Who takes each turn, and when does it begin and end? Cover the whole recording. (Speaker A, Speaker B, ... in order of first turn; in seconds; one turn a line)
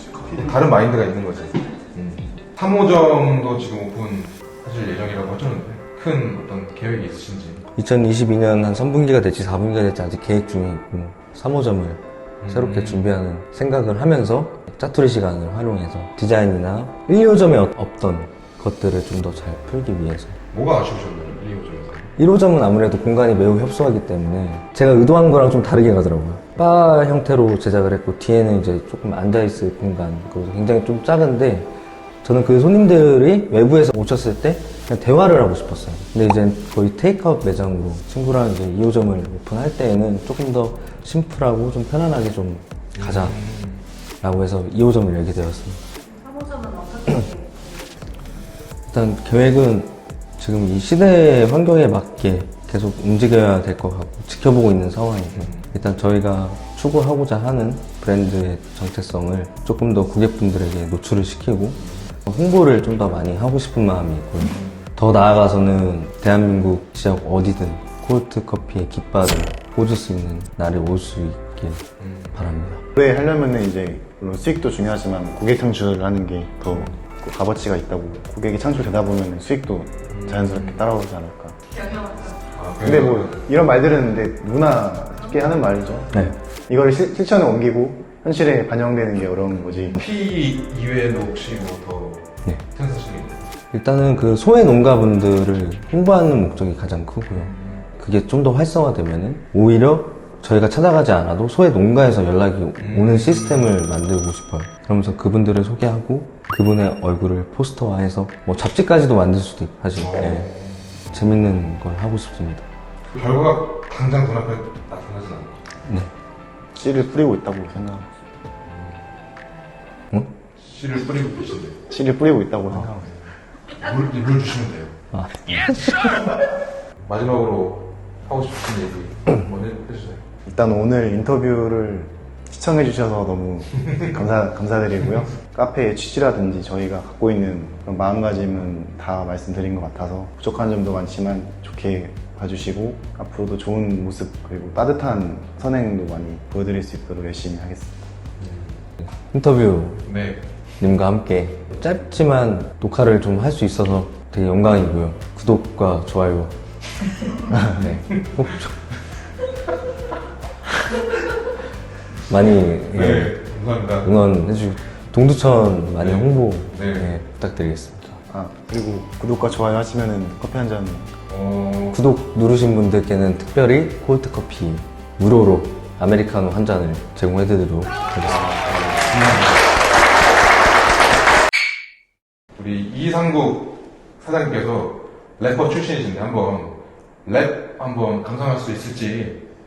Speaker A: 0.2-7.7
Speaker B: 7.7-20.4
Speaker A: 12.4-13.1
Speaker A: 20.5-22.1
Speaker B: 22.2-31.7
Speaker B: 32.2-43.4
Speaker A: 42.9-43.8
Speaker B: 44.2-45.8
Speaker C: 46.1-48.2
Speaker B: 48.9-72.8
Speaker A: 55.3-55.7
Speaker A: 61.8-62.1
Speaker A: 64.5-64.9
Speaker A: 72.0-72.4
Speaker D: 73.0-81.6
Speaker A: 76.7-77.0
Speaker A: 80.1-80.9
Speaker C: 81.8-82.3
Speaker A: 82.5-83.4
Speaker D: 82.8-90.0
Speaker A: 89.9-93.5
Speaker B: 93.7-110.5
Speaker A: 97.3-97.8
Speaker A: 102.8-103.8
Speaker A: 110.0-110.9
Speaker B: 111.1-112.7
Speaker A: 113.1-115.6
Speaker D: 116.8-118.1
Speaker A: 118.7-119.0
Speaker A: 120.6-121.8
Speaker D: 121.9-123.1
Speaker A: 122.7-125.0
Speaker B: 125.1-126.3
Speaker A: 127.0-130.2
Speaker D: 130.4-148.0
Speaker A: 148.4-148.8
Speaker B: 149.3-150.1
Speaker A: 150.0-150.4
Speaker B: 150.8-156.5
Speaker B: 157.7-158.7
Speaker B: 162.3-163.4
Speaker A: 162.9-164.1
Speaker B: 164.0-168.2
Speaker A: 166.0-167.1
Speaker D: 168.3-171.1
Speaker A: 171.3-172.0
Speaker B: 171.9-178.6
Speaker A: 178.2-179.7
Speaker A: 182.6-189.4